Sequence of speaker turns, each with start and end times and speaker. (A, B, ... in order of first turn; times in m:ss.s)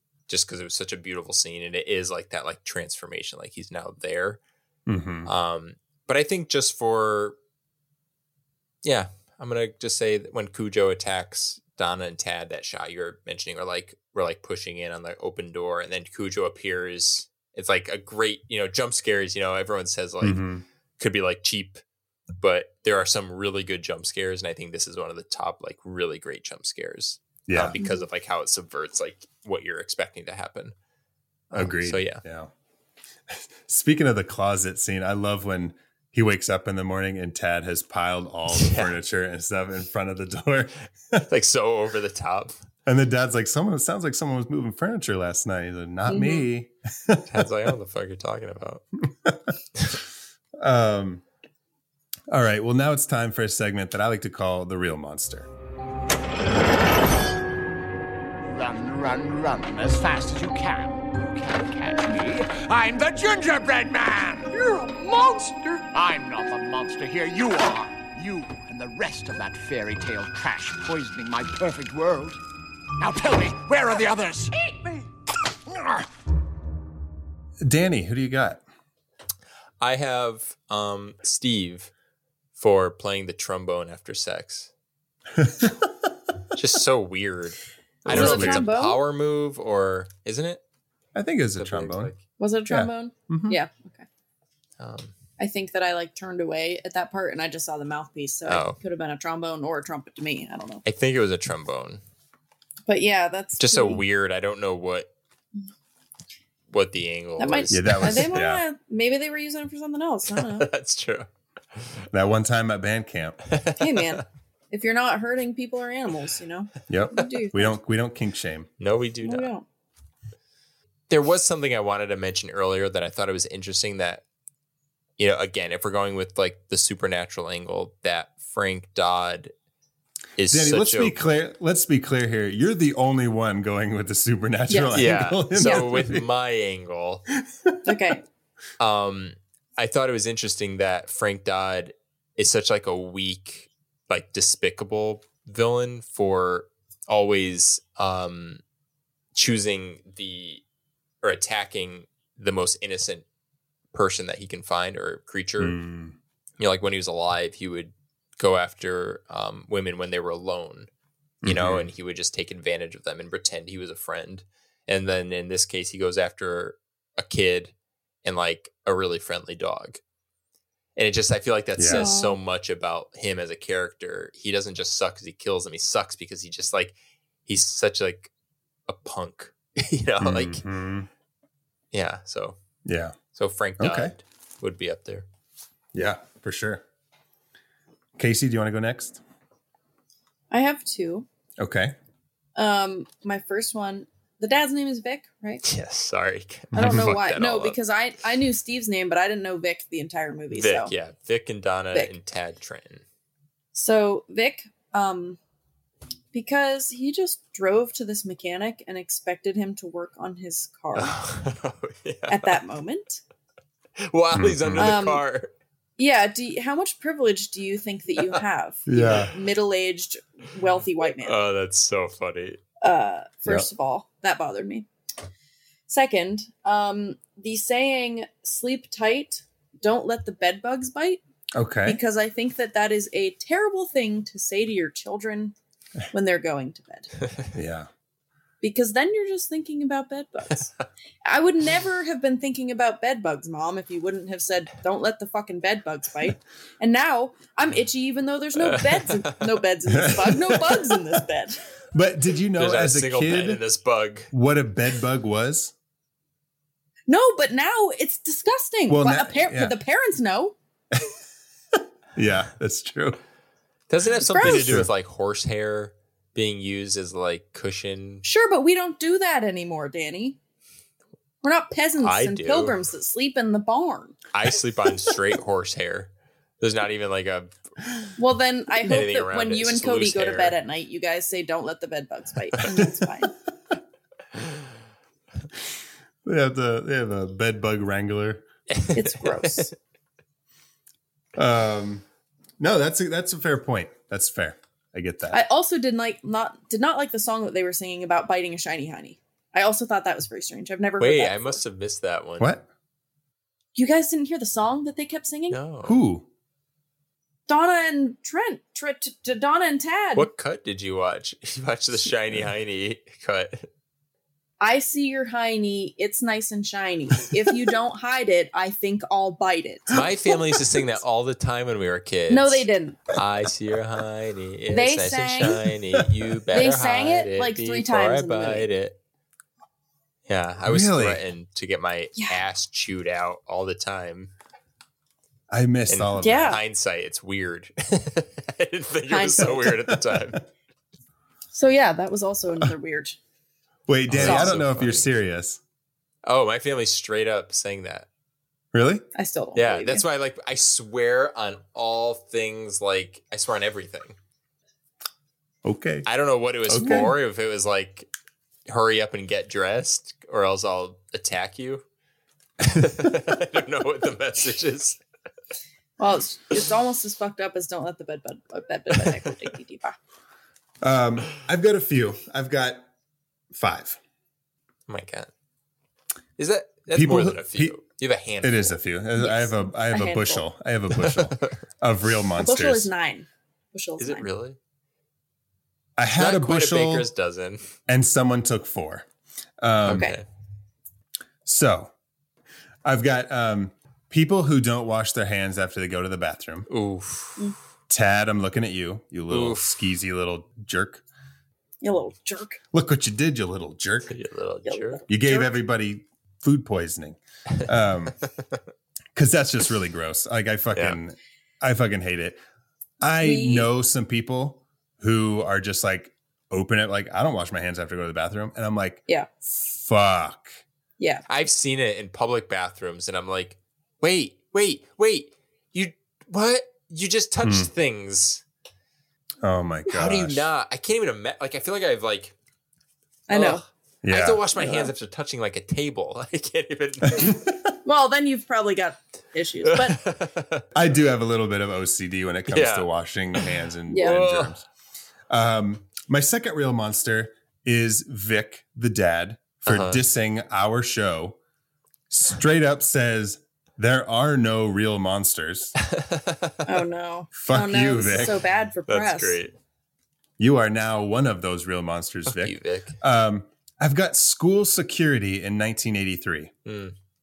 0:00.3-0:04.4 A
0:04.9-0:05.3 B
0:05.2-0:07.4 A
0:08.8-0:20.4 A
0:20.2-0:20.6 B
0:21.0-0:21.8 A
0:22.4-0:30.7 A
0:27.5-0:27.8 B
0:31.5-0:32.2 A
0:31.5-0:32.5 B
0:33.3-0:41.2 B
0:38.5-0:38.9 A
0:41.3-0:42.5 A
0:42.8-0:47.5 B
0:46.1-0:46.4 C
0:47.3-0:48.8 A
0:49.1-0:49.5 B
0:50.6-0:51.2 B
0:52.3-0:55.5 B
0:58.4-1:12.4 D
1:13.0-1:15.0 D
1:15.7-1:16.0 D
1:17.6-1:18.6 B
1:19.8-1:21.9 A
1:22.6-1:24.7 A
1:25.4-1:25.9 B
1:26.5-1:30.6 A
1:28.0-1:28.7 B
1:28.1-1:29.0 C
1:31.1-1:32.1 B
1:31.6-1:32.2 A
1:32.4-1:34.0 C
1:32.7-1:33.6 B
1:34.8-1:35.1 A
1:35.4-1:40.8 C
1:38.4-1:38.8 A
1:40.8-1:42.0 A
1:42.9-1:44.0 C
1:43.6-1:45.1 A
1:46.7-1:48.4 A
1:47.4-1:50.7 C
1:47.7-1:48.6 B
1:50.3-1:52.0 A
1:52.1-1:53.4 B
1:53.5-1:54.2 A
1:53.8-1:57.7 C
1:56.9-1:58.7 B
1:58.8-1:59.5 A
1:59.2-1:59.6 C
2:01.1-2:04.2 A
2:05.2-2:09.5 A
2:10.4-2:11.2 A
2:10.5-2:16.3 B
2:14.7-2:15.9 C
2:14.9-2:17.2 A
2:17.8-2:18.2 C
2:18.8-2:28.6 A
2:29.3-2:30.6 A
2:31.2-2:33.2 A
2:33.9-2:35.8 A
2:35.6-2:36.2 B
2:36.6-2:40.9 A
2:41.4-2:41.9 B
2:41.4-2:50.0 A
2:51.0-2:58.3 A
2:51.8-2:52.1 B
2:51.9-2:52.4 C
2:58.9-3:00.6 A
3:00.2-3:01.1 B
3:01.9-3:02.6 A
3:02.8-3:03.2 B
3:03.3-3:05.2 A
3:03.8-3:04.1 B
3:05.9-3:06.8 B
3:08.2-3:09.2 B
3:10.5-3:11.3 C
3:11.6-3:12.0 B
3:12.6-3:15.6 C
3:15.6-3:17.8 A
3:16.7-3:17.1 B
3:16.7-3:20.9 C
3:20.5-3:23.0 A
3:23.7-3:25.4 C
3:26.3-3:31.2 C
3:30.9-3:32.6 A
3:32.3-3:33.2 C
3:34.0-3:35.5 A
3:34.3-3:34.9 B
3:34.8-3:35.2 C
3:36.0-3:41.4 C
3:38.9-3:39.3 B
3:41.2-3:42.6 A
3:42.8-3:44.9 C
3:45.9-3:51.2 C
3:51.5-3:52.0 B
3:51.8-3:55.5 C
3:56.1-3:57.1 C
3:57.5-3:57.9 B
3:58.6-4:00.7 C
4:01.2-4:11.6 C
4:08.6-4:09.6 A
4:09.9-4:11.2 B
4:11.9-4:13.6 B
4:12.6-4:14.3 A
4:14.3-4:15.7 B
4:17.1-4:20.6 C
4:18.9-4:19.8 B
4:22.1-4:23.2 B
4:23.9-4:28.2 A
4:24.3-4:24.8 C
4:24.4-4:24.9 B
4:28.2-4:30.4 C
4:31.4-4:34.2 C
4:32.0-4:32.8 A
4:34.3-4:37.6 A
4:38.2-4:43.3 C
4:38.8-4:40.6 A
4:46.2-4:48.4 B
4:48.7-4:49.7 A
4:48.9-4:49.7 C
4:51.4-4:52.0 B
4:52.6-4:55.4 B
4:55.3-5:01.6 C
5:01.0-5:02.5 A
5:02.4-5:02.7 B
5:03.8-5:05.6 C
5:05.5-5:06.0 A
5:05.8-5:06.3 B
5:07.5-5:10.3 C
5:10.1-5:13.7 A
5:14.6-5:21.0 C
5:19.9-5:29.0 A
5:22.3-5:23.1 C
5:24.7-5:25.6 C
5:26.5-5:28.7 C
5:30.3-5:34.3 A
5:30.6-5:31.2 B
5:35.5-5:36.6 B
5:35.9-5:40.4 A
5:36.2-5:36.6 C
5:39.1-5:39.7 C
5:39.4-5:40.2 B
5:41.5-5:43.2 C
5:43.9-5:45.6 B
5:44.1-5:45.1 A
5:44.2-5:44.6 C
5:46.2-5:48.1 A
5:48.7-5:49.0 B
5:49.1-5:50.0 C
5:49.5-5:54.2 A
5:55.6-5:56.1 B
5:56.1-5:58.1 A
5:56.7-5:57.1 B
5:58.7-6:01.8 A
6:02.6-6:05.0 A
6:06.0-6:10.0 C
6:10.8-6:12.8 B
6:13.5-6:14.0 B
6:14.9-6:15.3 A
6:16.4-6:18.7 A
6:16.9-6:17.8 B
6:18.4-6:22.9 B
6:19.2-6:20.4 C
6:20.9-6:21.6 A
6:22.4-6:24.3 C
6:24.0-6:24.6 A
6:26.0-6:27.1 B
6:26.2-6:27.6 A
6:27.9-6:29.1 B
6:29.6-6:30.1 B
6:29.8-6:30.2 A
6:29.9-6:30.2 C
6:31.4-6:31.9 B
6:32.8-6:36.7 B
6:36.7-6:37.4 A
6:37.9-6:41.0 B
6:39.3-6:39.7 A
6:41.8-6:42.6 C
6:42.7-6:44.2 B
6:44.1-6:45.0 A
6:44.6-6:45.6 C
6:45.1-6:48.1 B
6:49.1-6:52.4 B
6:53.0-7:00.6 B
6:53.2-6:53.7 C
7:01.0-7:01.2 C
7:01.3-7:08.4 A
7:07.4-7:07.7 B
7:09.4-7:10.5 B
7:09.9-7:12.3 A
7:13.3-7:13.6 C
7:13.3-7:17.4 A
7:14.0-7:14.4 B
7:14.6-7:14.9 C
7:17.0-7:17.7 B
7:17.8-7:20.0 C
7:19.6-7:20.6 A
7:20.7-7:24.6 B
7:22.5-7:24.6 A
7:23.9-7:24.2 C
7:25.3-7:31.4 B
7:29.6-7:30.0 A
7:32.1-7:35.7 B
7:35.8-7:36.6 A
7:36.6-7:39.4 C
7:37.3-7:38.4 B
7:38.0-7:39.5 A
7:40.4-7:46.5 B
7:42.3-7:42.9 A
7:46.6-7:46.9 A